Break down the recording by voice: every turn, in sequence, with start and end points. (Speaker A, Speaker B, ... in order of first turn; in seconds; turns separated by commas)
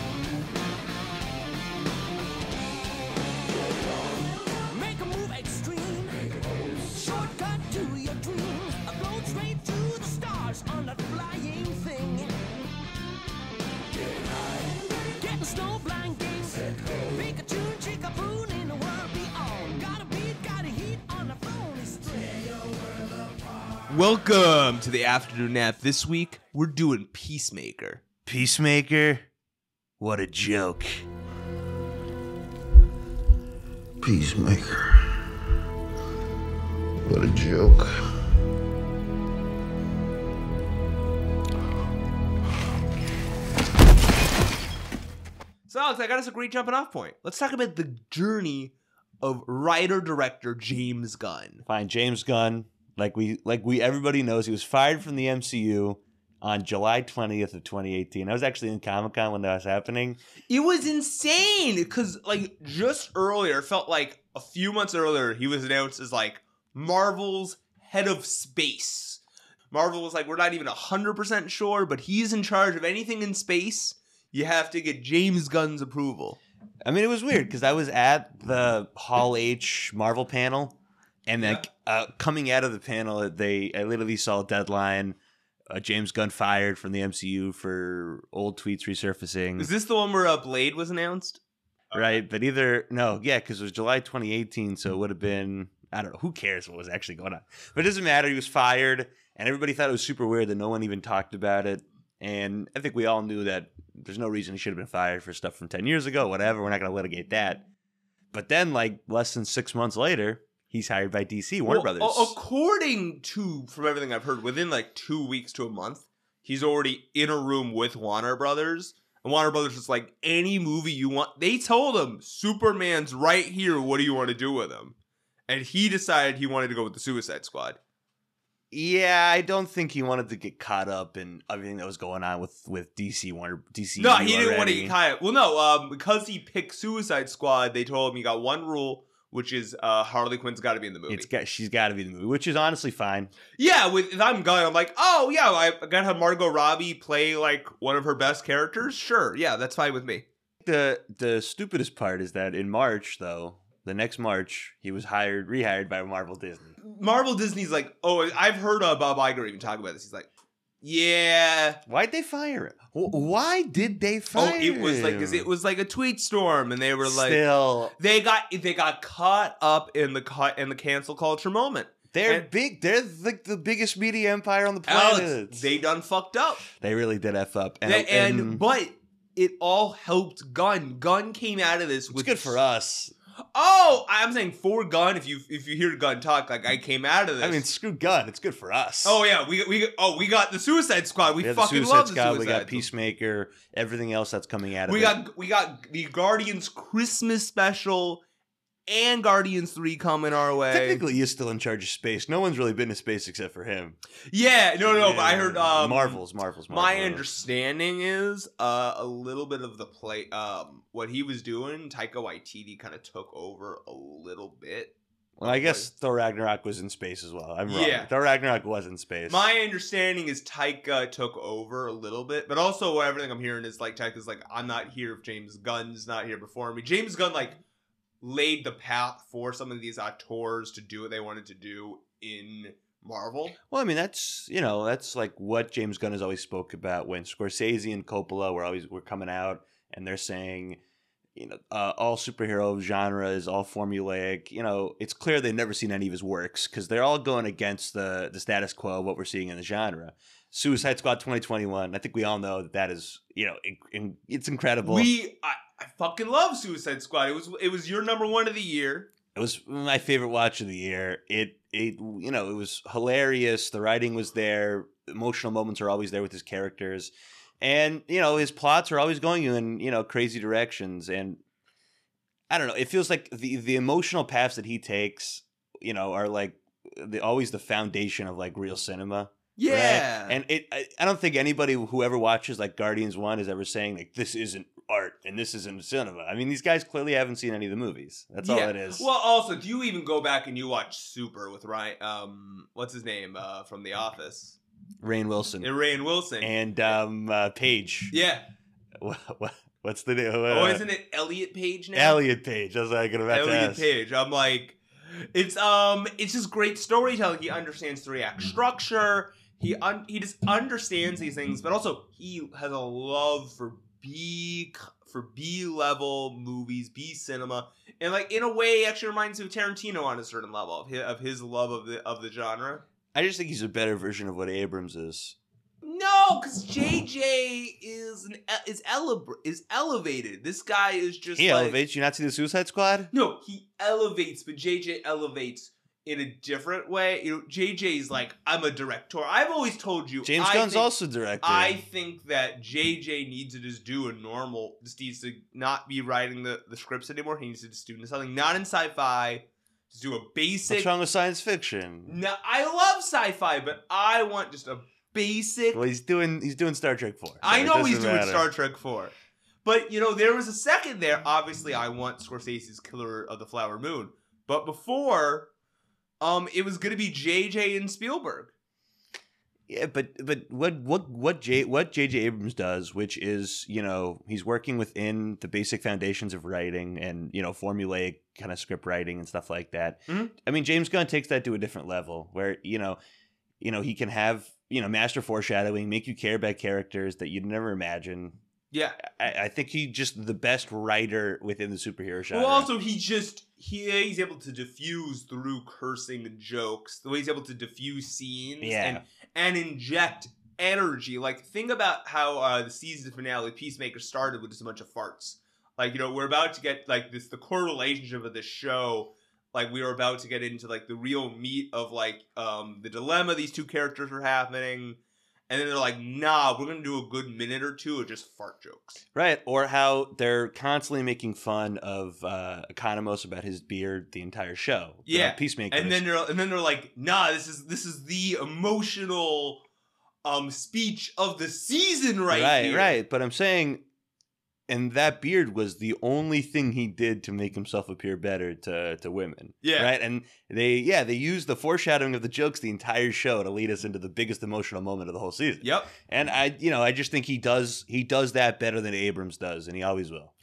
Speaker A: 4.4-12.3, Speaker A: 14.6-22.8, Speaker B: 23.9-28.0, Speaker C: 28.3-29.3, Speaker C: 30.0-31.1, Speaker C: 34.0-35.3, Speaker C: 37.0-38.0, Speaker B: 45.7-51.7, Speaker C: 51.7-60.2, Speaker B: 60.5-76.4, Speaker C: 76.8-80.8, Speaker C: 81.3-85.2, Speaker C: 85.7-89.7, Speaker B: 89.6-91.4, Speaker B: 91.9-92.2, Speaker C: 91.9-107.6, Speaker C: 108.3-112.3, Speaker B: 111.7-125.0, Speaker B: 125.5-127.8, Speaker C: 128.7-135.0, Speaker B: 134.0-141.3, Speaker C: 141.1-143.3, Speaker B: 143.6-150.2, Speaker C: 150.6-156.8, Speaker B: 156.8-160.3, Speaker B: 160.8-161.8, Speaker C: 161.9-165.5, Speaker B: 164.3-167.4, Speaker C: 167.0-167.9, Speaker B: 167.9-172.5, Speaker C: 172.1-175.6, Speaker B: 174.9-176.6, Speaker C: 176.7-178.6, Speaker B: 177.8-182.6, Speaker C: 182.1-183.1, Speaker B: 183.5-187.7, Speaker C: 187.4-189.2, Speaker B: 189.0-192.9, Speaker C: 191.4-195.2, Speaker B: 194.9-198.2, Speaker B: 198.9-201.0, Speaker C: 200.7-204.0, Speaker B: 204.3-215.9, Speaker C: 204.8-207.3, Speaker C: 215.4-219.5, Speaker B: 217.7-218.1, Speaker B: 219.3-227.6, Speaker B: 228.2-233.6, Speaker C: 233.7-240.8, Speaker C: 241.3-255.1, Speaker B: 254.8-259.1, Speaker C: 259.4-271.4, Speaker C: 272.5-289.1, Speaker B: 279.6-280.4, Speaker B: 288.4-294.6, Speaker C: 295.0-295.7, Speaker B: 295.6-297.0, Speaker C: 296.4-298.1, Speaker B: 298.1-298.5, Speaker C: 299.0-300.8, Speaker B: 300.5-302.2, Speaker C: 301.9-303.8, Speaker B: 303.3-322.8, Speaker C: 323.1-325.4, Speaker B: 325.8-331.8, Speaker C: 331.4-333.1, Speaker B: 333.1-350.9, Speaker C: 340.2-341.8, Speaker C: 350.7-352.2, Speaker B: 352.1-355.8, Speaker C: 355.7-358.5, Speaker B: 357.4-359.1, Speaker B: 359.6-365.5, Speaker B: 366.2-368.5, Speaker C: 369.7-383.0, Speaker C: 383.6-388.4, Speaker B: 388.7-389.0, Speaker C: 389.0-392.7, Speaker B: 392.3-415.0, Speaker C: 398.6-399.0, Speaker B: 415.5-419.0, Speaker C: 419.1-426.1, Speaker B: 425.1-429.6, Speaker B: 430.2-432.9, Speaker C: 432.3-433.8, Speaker C: 434.7-450.3, Speaker B: 439.6-439.9, Speaker B: 445.6-445.9